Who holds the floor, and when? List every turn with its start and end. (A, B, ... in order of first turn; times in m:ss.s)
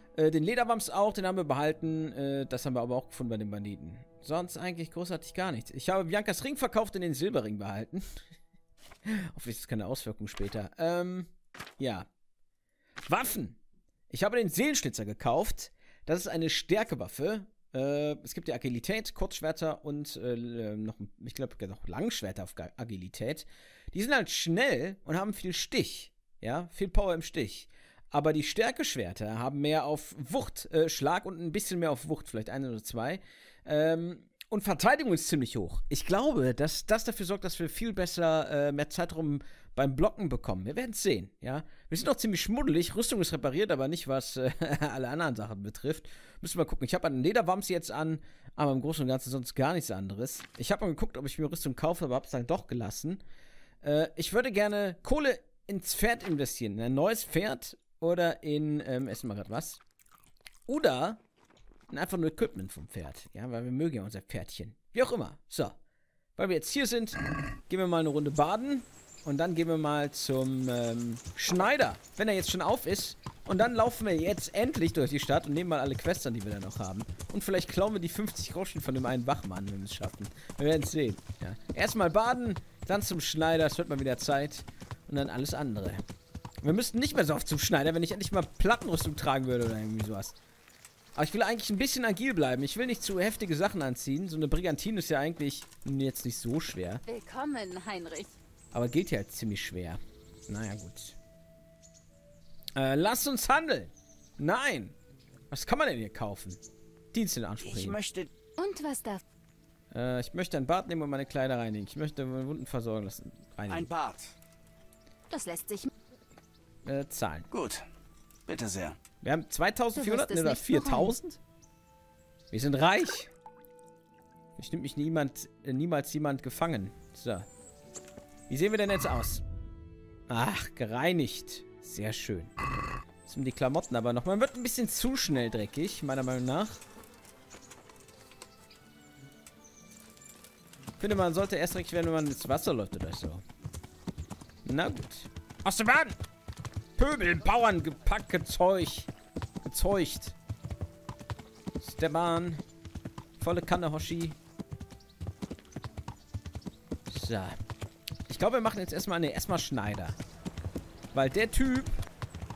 0:00.2-0:08.2 A
0:09.0-0:12.1 A
0:13.0-0:13.6 A
0:14.1-0:53.2 A
0:53.8-0:59.8 A
1:00.7-1:01.2 A
1:01.9-1:05.8 A
1:06.4-1:26.0 A
1:26.6-1:30.4 A
1:31.2-1:37.0 A
1:37.1-1:38.3 B
1:38.7-1:41.2 A
1:42.8-1:45.0 A
1:45.5-1:46.6 A
1:47.1-1:48.0 A
1:47.6-1:48.3 C
1:48.6-1:49.2 B
1:49.9-1:53.9 A
1:53.7-1:54.4 C
1:55.3-1:55.9 B
1:56.8-1:57.5 A
1:57.5-1:57.8 C
1:58.5-1:59.0 C
1:59.2-2:01.4 A
2:00.0-2:01.2 B
2:02.5-2:03.3 A
2:04.6-2:07.5 A
2:08.5-2:09.4 A
2:10.3-2:12.5 A
2:13.2-2:16.8 A
2:21.0-2:23.4 A
2:24.6-2:26.2 A
2:27.0-2:29.1 A
2:29.6-2:30.4 A
2:31.8-2:32.6 A
2:33.4-2:34.4 A
2:37.1-2:37.6 A
2:38.3-2:40.2 A
2:41.1-2:42.0 A